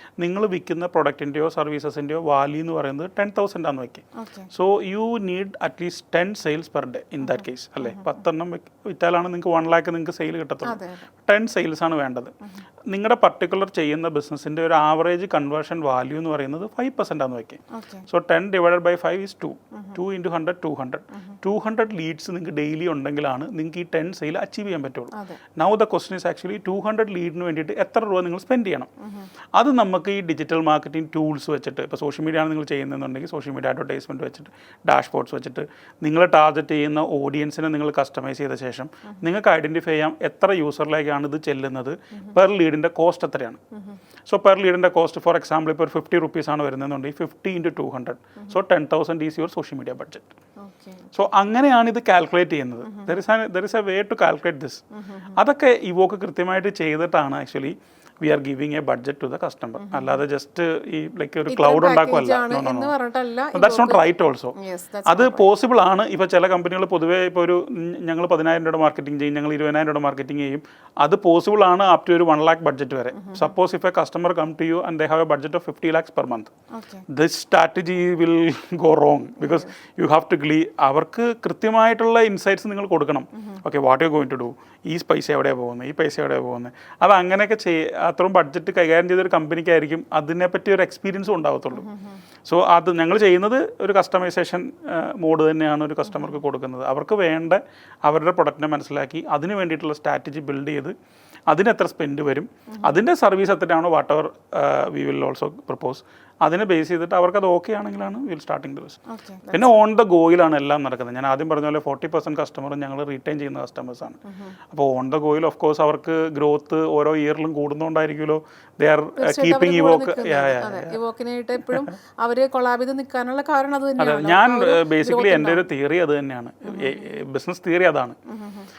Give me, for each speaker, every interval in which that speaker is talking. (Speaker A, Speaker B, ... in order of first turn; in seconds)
Speaker A: 0.2-12.3, 12.9-28.9, 29.6-43.6, 44.3-50.3, 51.1-54.8, 55.3-62.9, 63.5-64.5, 65.1-76.5, 77.1-91.9, 92.5-101.0, 101.5-109.0, 109.5-114.2, 114.7-121.0, 124.0-128.2
Speaker B: 4.2-4.5, 7.2-8.0, 10.7-11.1, 17.7-18.1, 21.1-21.4, 25.1-25.4, 29.0-29.3, 43.7-44.0, 50.6-51.1, 52.9-53.1, 54.9-55.4, 59.8-60.2, 61.5-64.0, 64.6-65.5, 73.1-73.5, 76.7-77.1, 79.4-79.7, 83.4-83.6, 91.7-92.2, 96.0-96.4, 102.7-103.0, 109.1-109.7, 114.3-114.6, 119.2-125.6, 126.7-127.0, 128.3-128.7